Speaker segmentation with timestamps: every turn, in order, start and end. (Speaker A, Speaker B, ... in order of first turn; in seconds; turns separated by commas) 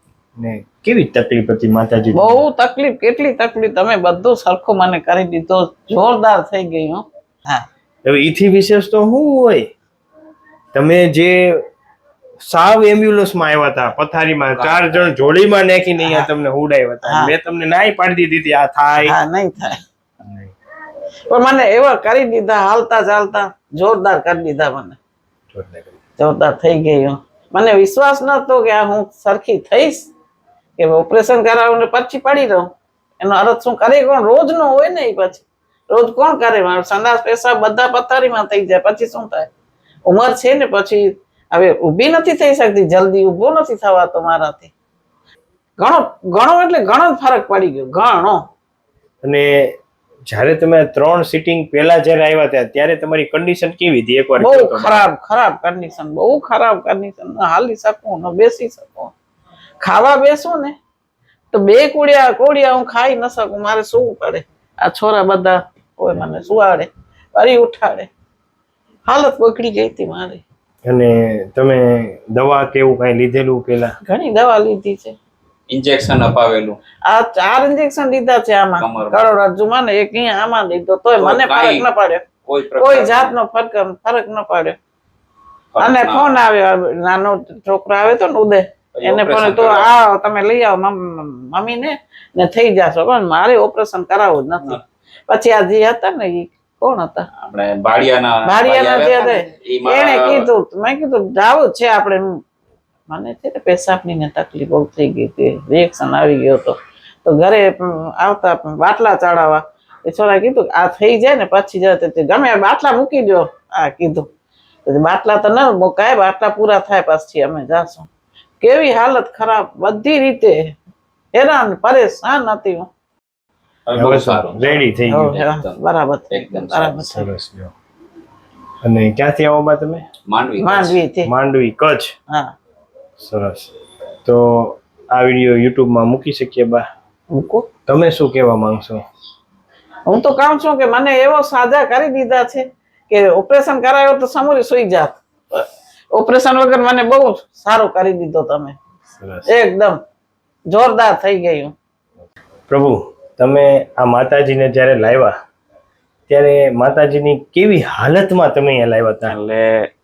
Speaker A: 0.4-2.4, Speaker B: 2.1-7.7, Speaker A: 8.1-9.7, Speaker A: 10.7-11.6, Speaker A: 12.4-19.2, Speaker C: 14.6-14.9, Speaker B: 16.0-16.3, Speaker B: 17.1-17.3, Speaker B: 19.1-19.8, Speaker A: 20.2-20.5, Speaker B: 21.3-25.0, Speaker A: 25.5-25.9, Speaker B: 26.2-30.1, Speaker B: 30.8-39.5, Speaker B: 40.1-44.7, Speaker B: 45.8-48.4, Speaker A: 49.2-49.8, Speaker A: 50.3-55.1, Speaker B: 54.4-59.1, Speaker B: 59.8-60.8, Speaker B: 61.5-68.1, Speaker B: 69.1-70.4, Speaker A: 70.8-74.0, Speaker B: 74.0-75.2, Speaker C: 75.7-76.8, Speaker B: 77.0-82.2, Speaker C: 78.8-79.3, Speaker C: 81.2-81.9, Speaker C: 82.5-83.3, Speaker B: 82.8-84.8, Speaker C: 85.7-86.4, Speaker B: 85.8-97.3, Speaker C: 89.0-90.0, Speaker C: 97.4-100.4, Speaker B: 98.5-102.4, Speaker B: 103.1-114.3, Speaker B: 114.9-118.1, Speaker B: 118.6-120.8, Speaker B: 121.3-122.9, Speaker C: 123.9-125.8, Speaker A: 124.0-125.4, Speaker B: 125.1-127.3, Speaker C: 126.3-127.0, Speaker A: 127.0-127.7, Speaker A: 128.8-130.0, Speaker C: 130.3-131.0, Speaker B: 130.6-131.3, Speaker A: 131.2-132.1, Speaker A: 133.2-133.7, Speaker A: 134.2-136.8, Speaker B: 137.3-137.7, Speaker A: 137.9-139.0, Speaker B: 140.1-148.8, Speaker A: 149.2-149.5, Speaker B: 149.4-150.0, Speaker B: 150.7-151.7, Speaker A: 152.7-155.3, Speaker A: 156.3-159.3, Speaker C: 159.3-159.9